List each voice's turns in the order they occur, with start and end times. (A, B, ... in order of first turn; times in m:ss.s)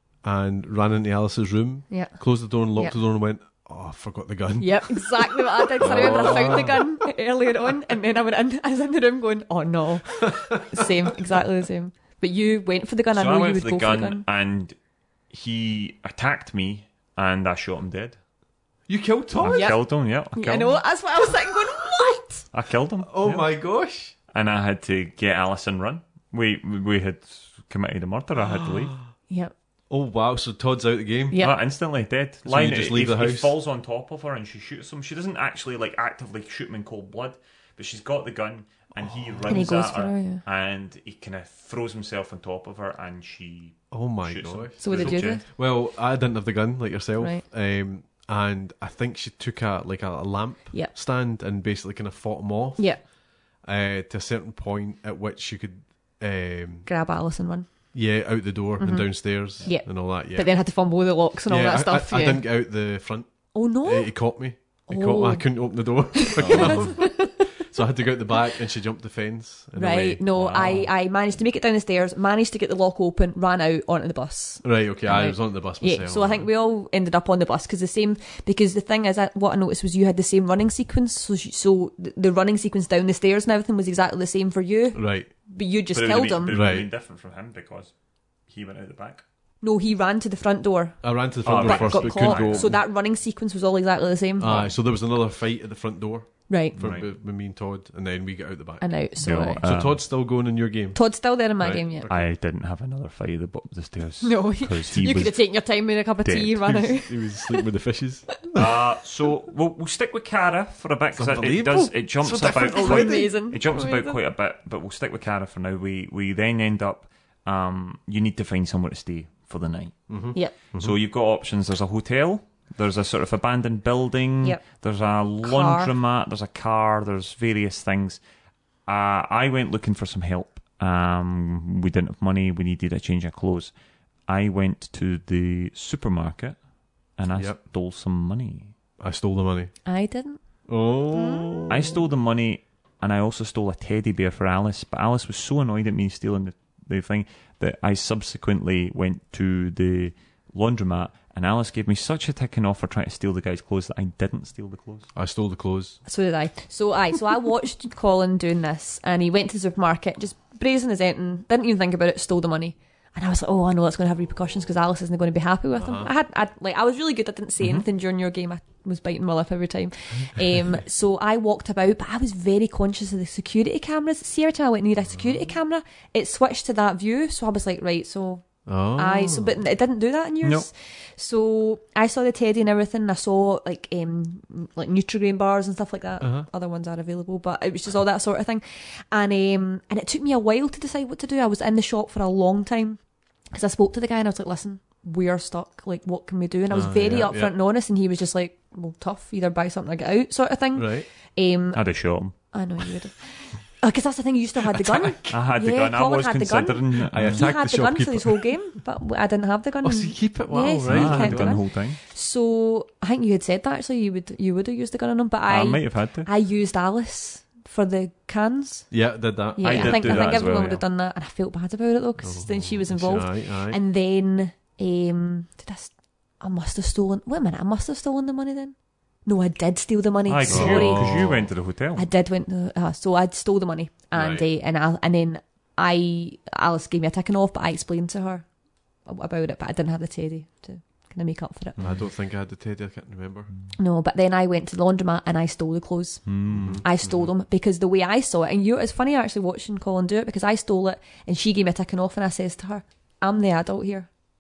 0:00.2-0:07.0 A
0:01.9-0:02.2 B
0:04.6-0:14.2 B
0:05.8-0:06.7 C
0:10.2-0:10.8 A
0:13.1-0:14.8 C
0:15.3-0:18.2 C
0:18.9-0:19.8 A
0:19.4-0:20.8 C
0:19.4-0:22.5 B
0:22.5-0:23.5 C
0:23.1-0:24.1 A
0:24.3-0:29.0 C
0:28.4-0:28.9 A
0:29.9-0:31.4 A
0:31.3-0:31.6 B
0:31.4-0:45.4 C
0:32.4-0:33.6 A
0:39.5-0:40.4 B
0:43.9-0:53.1 A
0:44.8-0:45.4 B
0:47.2-0:47.4 B
0:52.8-0:53.0 B
0:53.6-0:56.9 A
0:56.9-0:57.7 B
0:57.9-1:00.5 A
0:58.8-1:02.4 B
1:01.5-1:10.2 A
1:03.5-1:04.2 B
1:04.9-1:07.5 B
1:06.4-1:06.8 C
1:09.8-1:26.6 B
1:10.3-1:10.9 C
1:14.6-1:16.5 A
1:25.0-1:25.3 A
1:25.9-1:27.9 C
1:26.5-1:26.9 A
1:28.5-1:29.2 C
1:29.6-1:34.6 B
1:31.0-1:32.8 A
1:31.4-1:32.8 C
1:34.4-1:41.0 A
1:34.5-1:34.7 C
1:36.5-1:36.8 B
1:36.8-1:37.1 C
1:38.8-1:39.6 B
1:39.2-1:40.0 C
1:40.9-1:42.1 B
1:41.5-1:42.3 A
1:42.1-1:45.7 C
1:44.2-1:47.6 B
1:46.2-1:46.6 C
1:46.6-1:48.6 A
1:48.6-2:00.0 C
1:51.2-1:53.4 A
1:52.6-1:54.2 B
2:00.1-2:01.0 A
2:00.7-2:08.2 C
2:05.4-2:05.9 B
2:08.9-2:13.7 C
2:14.3-2:16.6 C
2:17.2-2:18.7 C
2:19.0-2:19.7 A
2:19.9-2:20.4 B
2:20.7-2:22.0 A
2:21.1-2:21.7 B
2:21.7-2:35.1 C
2:35.2-2:36.0 A
2:36.1-2:58.4 B
2:45.8-2:46.1 A
2:47.6-2:47.8 C
2:55.1-2:55.4 A
2:58.7-2:59.6 A
2:59.0-3:13.0 B
3:00.4-3:00.7 C
3:06.2-3:06.5 A
3:13.5-3:21.8 B
3:16.7-3:17.5 A
3:20.8-3:21.1 A
3:21.7-3:22.4 C
3:22.5-3:38.9 B
3:24.9-3:27.5 C
3:27.1-3:28.5 A
3:29.8-3:31.6 A
3:30.9-3:32.0 C
3:35.5-3:36.3 C
3:38.9-3:40.4 A
3:39.5-3:51.3 B
3:39.6-3:40.8 C
3:42.2-3:43.8 A
3:50.3-3:52.0 C
3:50.5-3:51.5 A
3:52.0-3:58.5 B
3:54.1-3:54.5 A
3:59.0-4:01.8 B
4:01.8-4:03.5 A
4:03.8-4:14.1 B
4:06.3-4:07.1 C
4:06.5-4:07.0 A